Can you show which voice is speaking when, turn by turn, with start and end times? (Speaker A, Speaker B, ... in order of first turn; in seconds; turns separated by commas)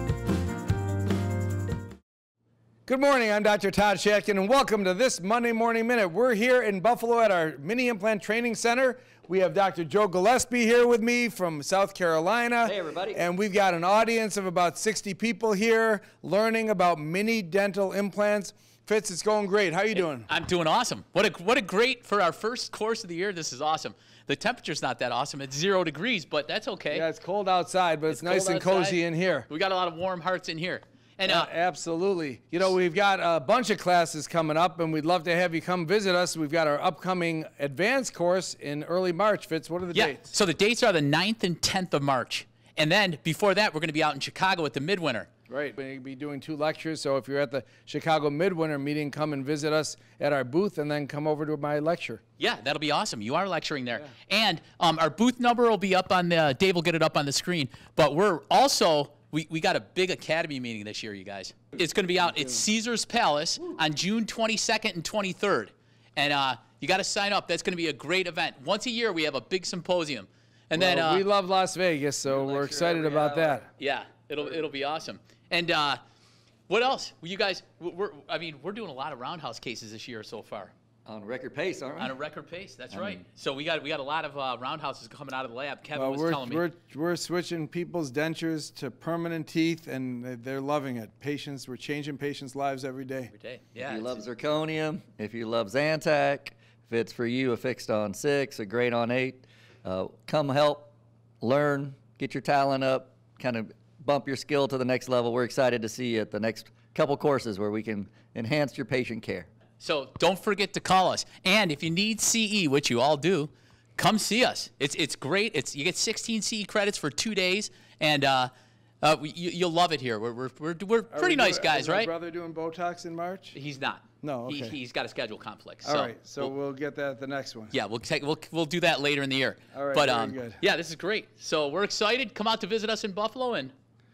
Speaker A: 2.9-20.3, Speaker B: 12.6-13.2, Speaker C: 19.9-27.1, Speaker A: 26.9-29.5, Speaker C: 28.1-31.5, Speaker A: 31.2-40.3, Speaker C: 39.9-45.3, Speaker A: 45.5-52.2, Speaker C: 52.4-71.2, Speaker A: 70.7-73.7, Speaker C: 72.3-76.0, Speaker C: 76.7-80.7, Speaker B: 81.0-82.1, Speaker C: 82.0-86.6, Speaker B: 82.9-83.2, Speaker A: 85.9-93.3, Speaker C: 93.3-94.2, Speaker B: 93.8-109.5, Speaker C: 109.8-118.5, Speaker C: 119.0-122.1, Speaker A: 121.1-123.5, Speaker C: 123.5-126.5, Speaker A: 124.2-124.8, Speaker A: 125.8-127.7, Speaker C: 127.7-133.7, Speaker A: 129.7-130.6